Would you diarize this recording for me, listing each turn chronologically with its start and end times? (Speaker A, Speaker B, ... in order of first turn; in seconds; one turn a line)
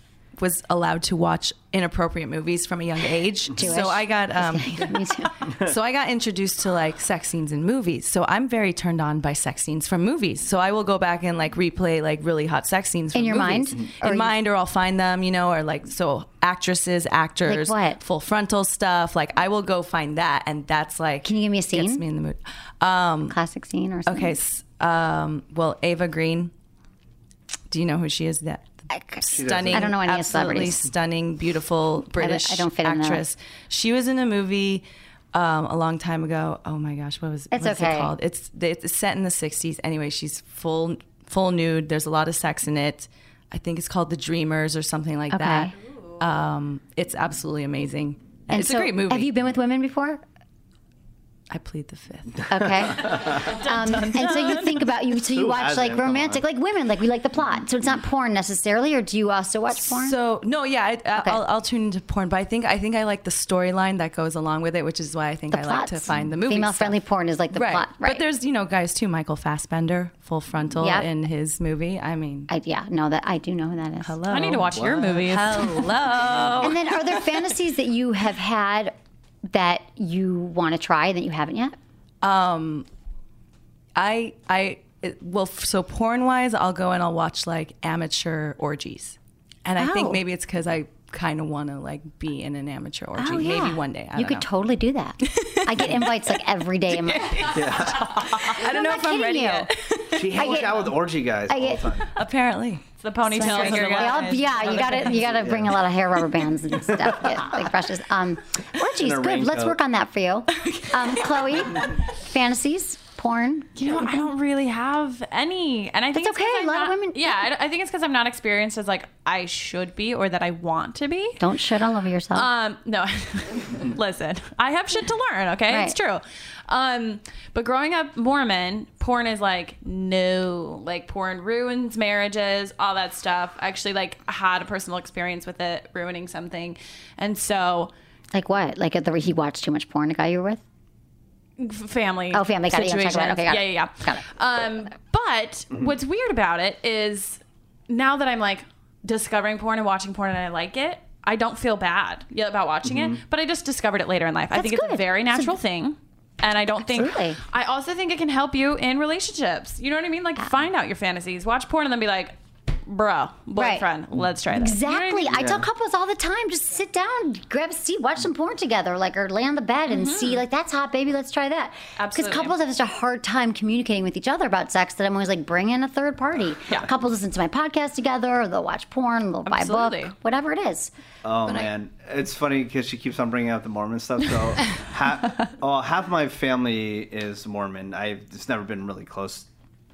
Speaker A: 0.4-23.4
Speaker B: 3.5-5.3
Speaker B: 13.1-14.3
Speaker B: 17.5-18.0
Speaker B: 21.2-22.0
Speaker B: 23.3-24.4
Speaker A: 24.1-26.5
Speaker A: 27.7-49.3
Speaker B: 28.9-30.8
Speaker C: 29.3-29.9
Speaker B: 32.2-33.2
Speaker B: 37.5-38.1
Speaker B: 45.3-45.7
Speaker B: 48.5-50.2
Speaker A: 51.5-52.5
Speaker B: 52.5-60.1
Speaker C: 52.7-53.4
Speaker D: 53.4-54.8
Speaker C: 55.2-56.4
Speaker A: 59.7-67.0
Speaker B: 65.5-68.2
Speaker A: 67.5-72.5
Speaker B: 70.8-71.1
Speaker B: 72.5-74.2
Speaker A: 74.0-76.8
Speaker D: 74.3-76.4
Speaker C: 74.8-75.0
Speaker C: 76.2-76.7
Speaker B: 76.6-78.9
Speaker B: 79.5-81.8
Speaker A: 82.2-82.9
Speaker A: 84.0-94.5
Speaker B: 89.8-90.2
Speaker B: 93.2-97.4
Speaker A: 95.2-100.6
Speaker C: 97.5-98.3
Speaker B: 98.6-99.7
Speaker C: 100.1-102.1
Speaker B: 100.3-100.9
Speaker B: 101.5-101.9
Speaker A: 102.2-105.4
Speaker D: 103.0-105.2
Speaker B: 103.3-114.0
Speaker C: 105.4-105.8
Speaker C: 108.9-109.8
Speaker A: 110.7-111.6
Speaker D: 113.8-121.4
Speaker B: 116.2-117.5
Speaker B: 121.4-122.5
Speaker D: 122.3-137.9
Speaker B: 125.7-126.0
Speaker B: 138.3-140.6
Speaker D: 141.6-162.3
Speaker B: 142.3-144.2
Speaker C: 152.8-153.2
Speaker B: 154.6-155.6
Speaker B: 156.8-157.4
Speaker D: 162.9-165.3
Speaker B: 163.6-163.8
Speaker B: 164.5-180.9
Speaker C: 165.3-165.6
Speaker D: 169.9-170.4
Speaker D: 172.0-172.6
Speaker D: 179.5-180.1
Speaker C: 181.2-189.5